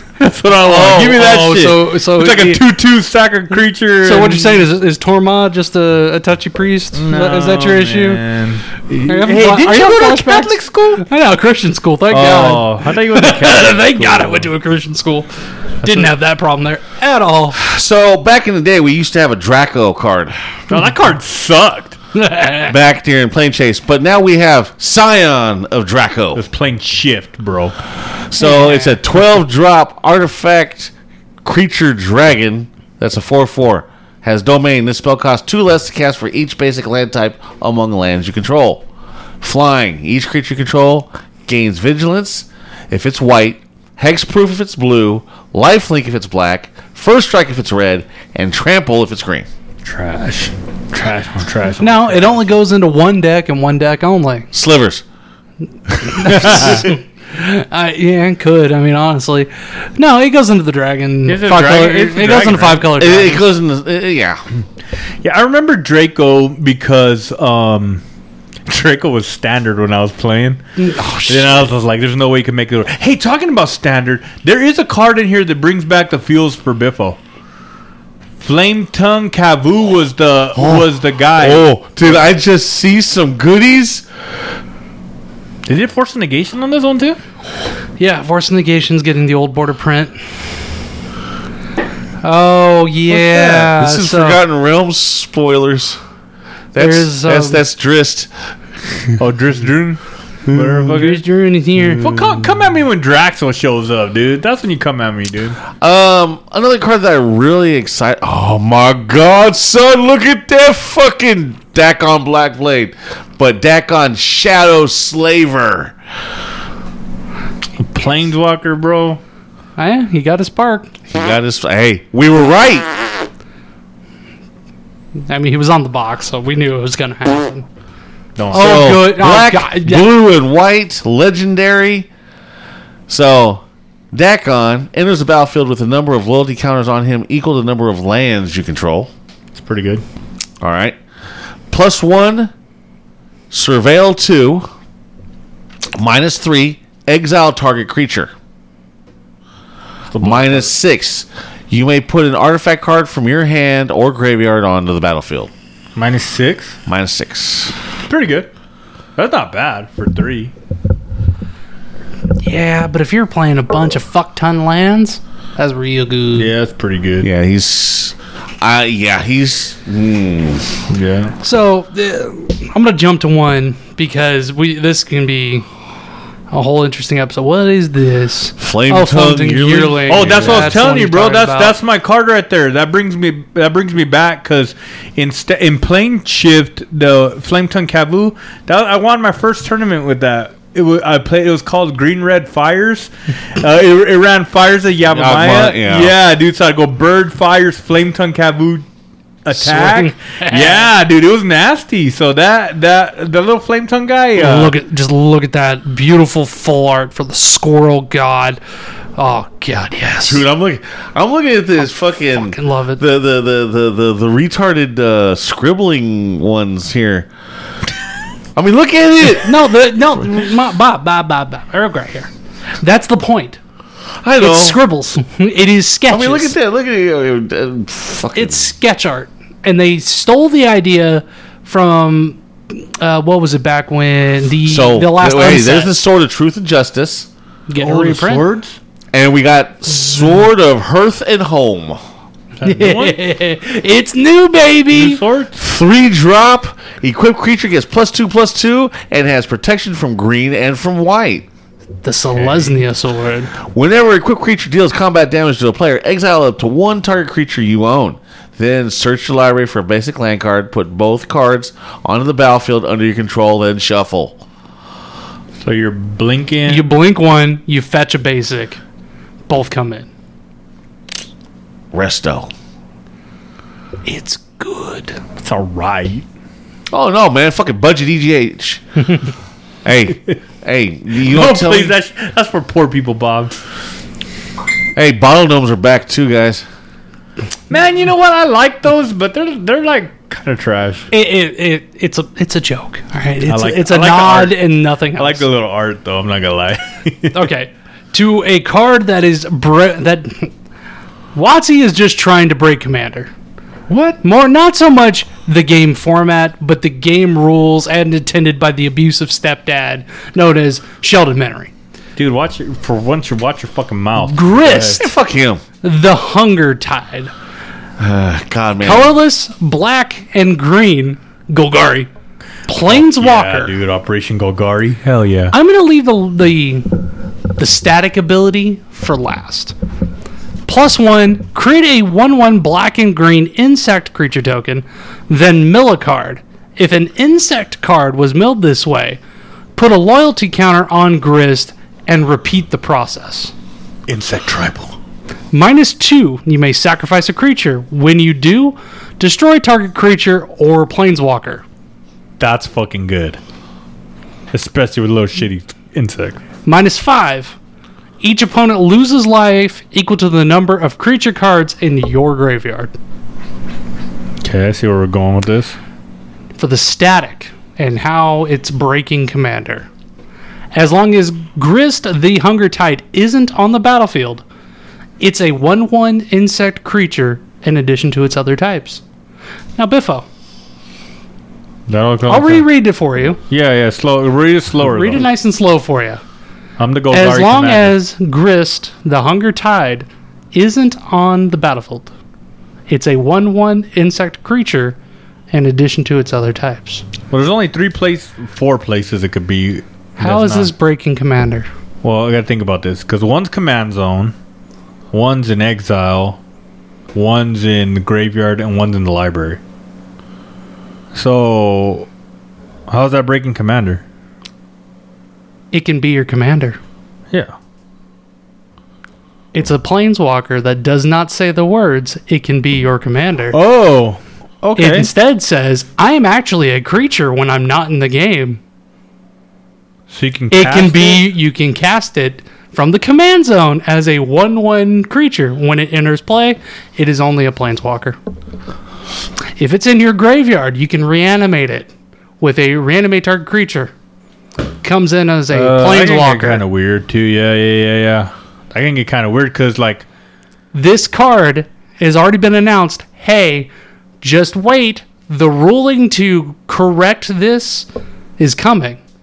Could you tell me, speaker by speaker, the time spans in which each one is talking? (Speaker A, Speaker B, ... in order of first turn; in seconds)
Speaker A: 0.2-4.7, 6.9-11.0, 12.1-14.5, 15.8-16.1, 20.7-22.0, 26.4-27.8, 49.8-52.4, 56.3-56.8, 61.3-62.9, 65.2-68.0, 68.7-70.6, 71.3-77.2, 78.4-82.2, 85.7-87.2, 93.1-93.7, 99.2-101.2, 101.8-105.6, 117.8-119.2, 128.4-128.8, 139.6-140.0, 150.1-150.7, 155.9-156.8, 158.1-158.5, 159.2-160.5, 166.3-167.3, 170.9-171.3, 180.1-198.9, 199.4-204.7, 237.8-238.8, 242.6-243.2, 244.9-245.6, 252.4-252.7, 265.6-266.9, 275.4-276.2, 281.2-283.6, 287.7-291.1, 293.5-297.4, 303.9-304.2, 312.2-315.0, 322.8-325.5, 344.1-344.9, 352.4-353.4, 354.5-356.4, 364.4-365.8, 381.9-382.6, 383.5-385.3, 386.8-387.9, 397.3-400.7, 402.0-404.3, 405.1-406.4, 407.1-409.6, 411.1-412.1, 412.9-414.0, 423.5-425.1, 430.1-431.3, 445.5-450.1
Speaker B: 0.6-2.6, 4.0-8.2, 9.1-15.3, 15.8-17.6, 22.1-22.7, 28.4-29.0, 51.8-54.5, 56.0-63.5, 70.8-71.6, 88.0-90.2, 92.2-94.4, 96.8-97.6, 100.9-102.1, 119.8-120.9, 125.3-127.6, 128.5-130.1, 162.4-166.5, 171.4-175.7, 176.5-181.7, 199.6-200.9, 204.4-208.6, 209.2-210.4, 212.3-213.0, 219.4-222.3, 222.8-223.6, 224.4-226.6, 228.3-235.9, 237.7-238.4, 242.6-245.2, 252.0-253.5, 266.7-268.8, 269.5-270.1, 274.1-275.2, 291.1-295.4, 297.3-300.5, 301.4-303.3, 304.2-311.7, 314.2-315.1, 315.8-317.3, 318.8-322.1, 322.7-323.7, 325.5-327.0, 327.6-329.7, 330.7-339.2, 339.8-343.5, 345.5-351.6, 356.6-357.6, 358.2-362.9, 366.6-369.9, 370.7-374.4, 375.2-379.0, 379.8-380.3, 382.3-383.4, 384.8-386.2, 387.1-392.1, 392.9-395.0, 395.5-397.0, 400.2-401.7, 415.7-416.8, 419.5-423.6, 424.8-428.6, 430.5-438.2, 439.6-443.9, 444.8-446.6, 450.7-453.7, 454.2-457.9, 458.4-459.0
Speaker C: 17.5-20.4, 22.7-26.4, 28.3-30.9, 31.4-38.8, 39.4-49.5, 54.5-55.0, 56.4-56.7, 63.0-64.4, 80.6-84.1, 93.8-96.0, 96.7-98.3, 105.8-116.0, 121.1-122.9, 128.5-132.1, 133.1-139.1, 140.6-141.0, 141.7-142.5, 143.5-144.7, 145.9-148.3, 150.2-155.5, 156.9-157.7, 167.2-170.7, 178.6-180.8, 195.1-196.1, 210.2-217.3, 218.6-219.6, 224.2-224.8, 226.1-228.7, 234.7-237.3, 239.1-242.0, 245.6-251.5, 253.7-264.4, 271.9-272.5, 276.9-278.8, 279.9-281.9, 284.9-286.6, 314.7-315.6, 318.0-319.1